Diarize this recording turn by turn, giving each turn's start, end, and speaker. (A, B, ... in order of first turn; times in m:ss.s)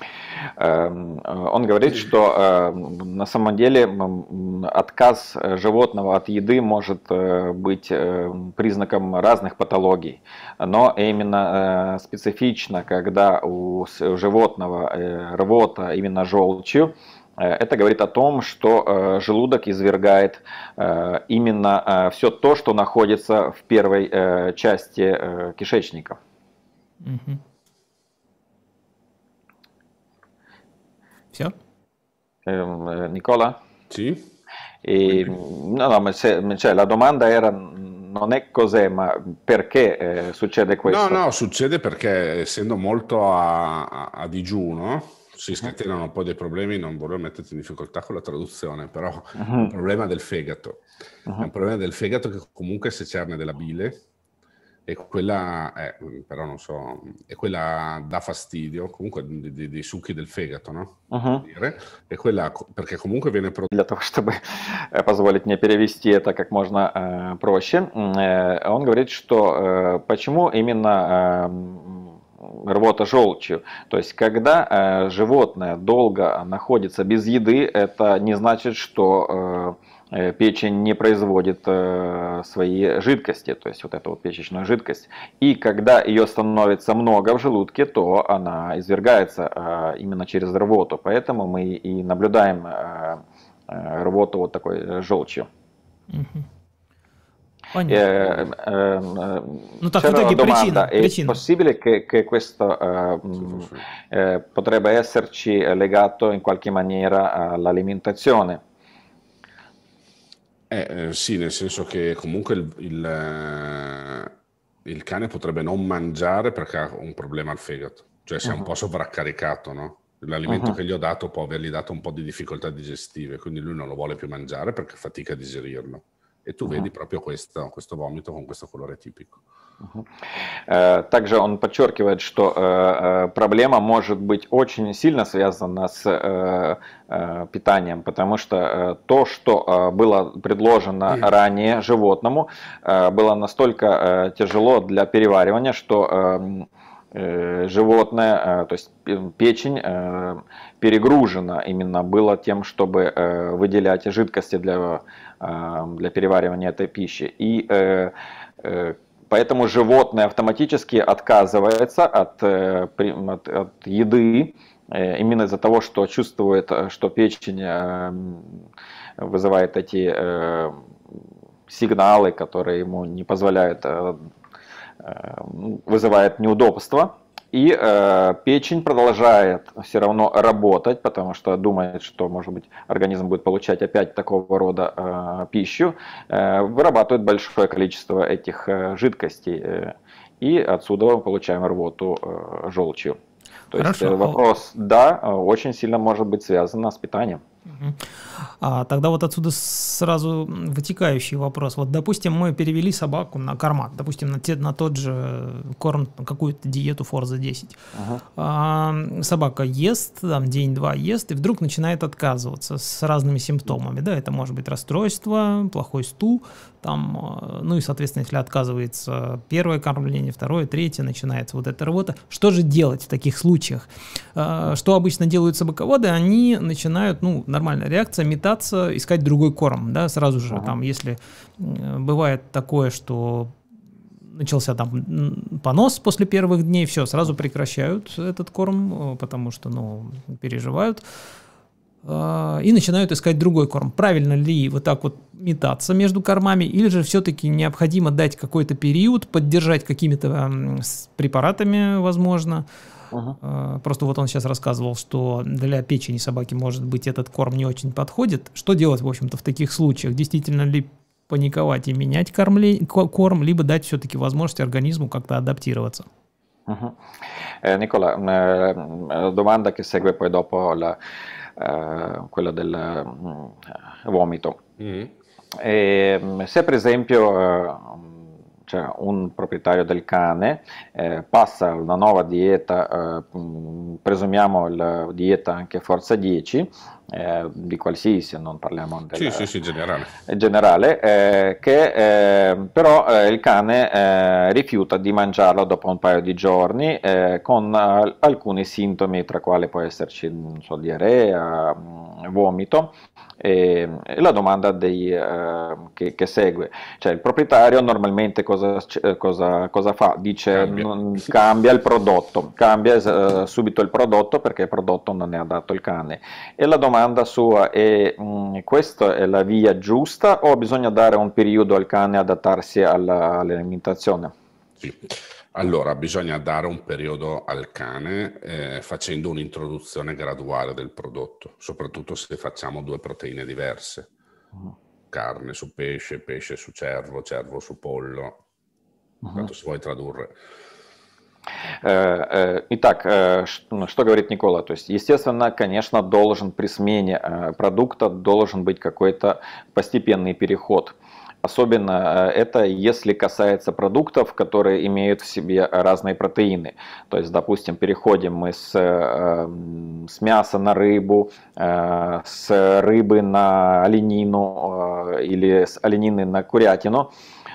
0:00.6-0:26.2 A
0:27.0-0:27.4 B
0:32.5-0:33.6 A
0:33.9-0:34.3 C
0:34.8-0:41.2 A
0:35.1-0:35.4 C
0:40.9-0:50.8 C
0:49.4-0:49.7 A
0:51.4-0:54.0 C
0:54.9-1:03.7 C
1:01.1-1:01.4 A
1:03.7-1:35.5 A
1:36.1-1:36.5 B
1:37.7-1:38.0 B
1:37.9-1:48.6 A
1:39.8-1:41.4 B
1:43.4-1:43.8 C
1:50.7-2:09.4 C
2:00.5-2:00.8 A
2:10.7-2:48.6 A
2:49.2-2:50.8 A
2:51.7-2:54.2 A
2:55.0-3:13.2 A
3:13.7-3:17.4 A
3:13.8-3:14.4 B
3:17.7-3:27.8 B
3:28.0-3:28.2 A
3:28.3-3:53.5 B
3:54.3-4:01.0 B
4:02.0-4:12.7 B
4:13.1-4:13.4 A
4:13.4-4:26.1 B
4:26.7-4:27.0 A
4:27.6-4:31.0 A
4:31.6-4:34.6 A
4:34.8-4:35.1 C
4:35.6-4:38.1 A
4:38.7-4:49.5 A
4:49.1-4:50.1 C
4:50.3-5:24.3 A
5:10.5-5:10.9 C
5:24.8-5:34.1 C
5:35.1-5:38.4 C
5:39.3-5:40.3 C
5:41.8-6:07.1 A